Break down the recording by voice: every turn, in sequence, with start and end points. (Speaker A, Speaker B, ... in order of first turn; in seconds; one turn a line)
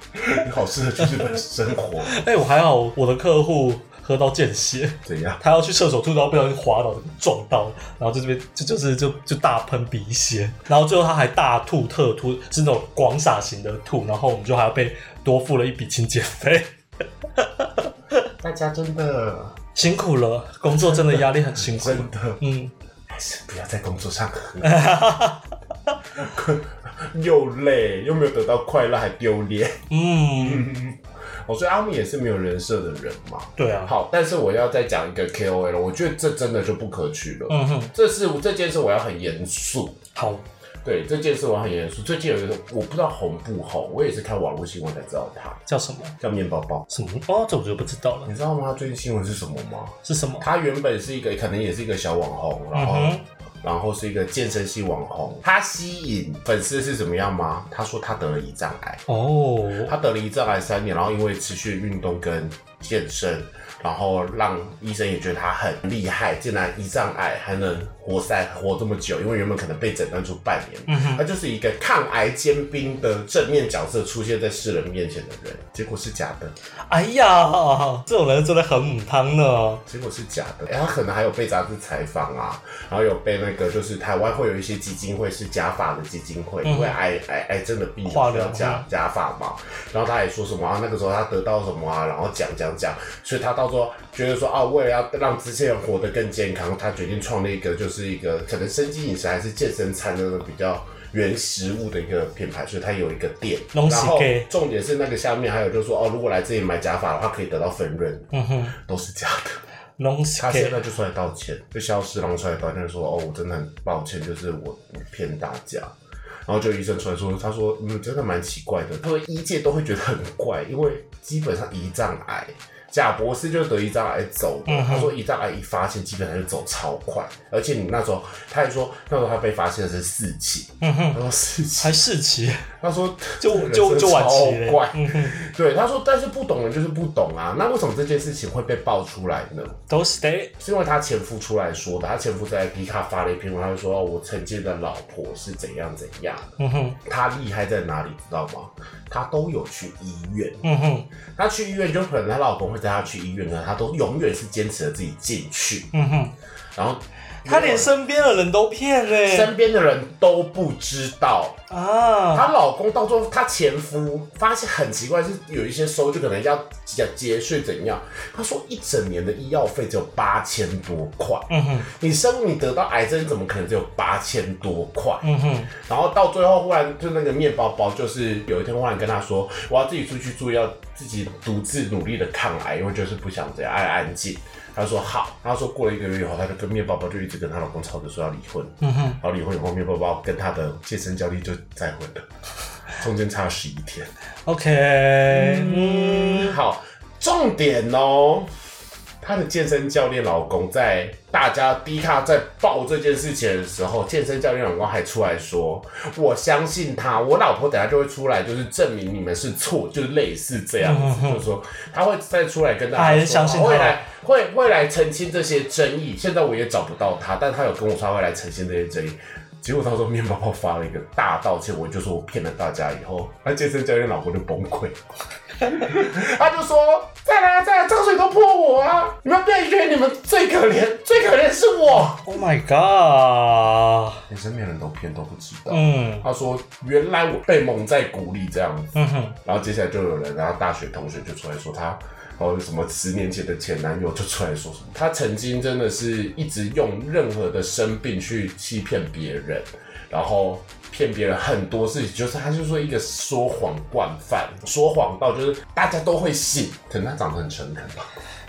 Speaker A: 0.1-2.2
Speaker B: 2.1-16.7
Speaker A: 5.0-5.4
Speaker B: 17.4-18.3
Speaker A: 18.4-19.6
Speaker B: 19.8-22.7
Speaker A: 20.8-22.4
Speaker A: 23.1-24.8
Speaker B: 24.6-25.4
Speaker A: 26.1-29.8
Speaker B: 29.9-30.7
Speaker A: 30.3-40.0
Speaker B: 33.6-33.9
Speaker B: 37.5-37.9
Speaker B: 40.1-40.4
Speaker A: 40.8-45.6
Speaker B: 45.7-46.1
Speaker A: 46.2-46.9
Speaker B: 46.9-48.3
Speaker A: 48.3-59.0
Speaker B: 50.0-50.5
Speaker B: 52.7-53.2
Speaker B: 59.1-59.9
Speaker A: 59.8-76.5
Speaker B: 70.9-71.2
Speaker B: 76.9-79.8
Speaker A: 79.9-109.6
Speaker B: 86.7-87.0
Speaker B: 88.1-88.9
Speaker B: 103.7-104.5
Speaker B: 108.3-108.8
Speaker B: 110.0-110.8
Speaker A: 110.4-116.0
Speaker A: 116.5-132.0
Speaker B: 124.7-125.2
Speaker B: 130.8-131.2
Speaker B: 131.8-132.7
Speaker A: 132.8-139.8
Speaker B: 133.4-135.4
Speaker B: 139.9-140.5
Speaker A: 140.6-146.5
Speaker B: 146.6-147.0
Speaker A: 147.1-150.6
Speaker B: 150.6-151.1
Speaker A: 151.3-155.9
Speaker B: 155.9-156.3
Speaker A: 156.8-157.9
Speaker B: 157.4-159.5
Speaker A: 159.2-161.6
Speaker B: 161.7-162.5
Speaker A: 162.3-192.3
Speaker B: 171.5-171.9
Speaker B: 175.2-175.7
Speaker B: 188.8-189.2
Speaker A: 192.9-194.1
Speaker B: 194.5-196.6
Speaker A: 195.3-198.5
Speaker A: 199.2-225.0
Speaker B: 210.8-211.4
Speaker B: 212.9-214.0
Speaker A: 225.6-232.3
Speaker B: 232.2-234.2
Speaker A: 234.3-258.2
Speaker B: 235.7-236.3
Speaker B: 238.9-239.4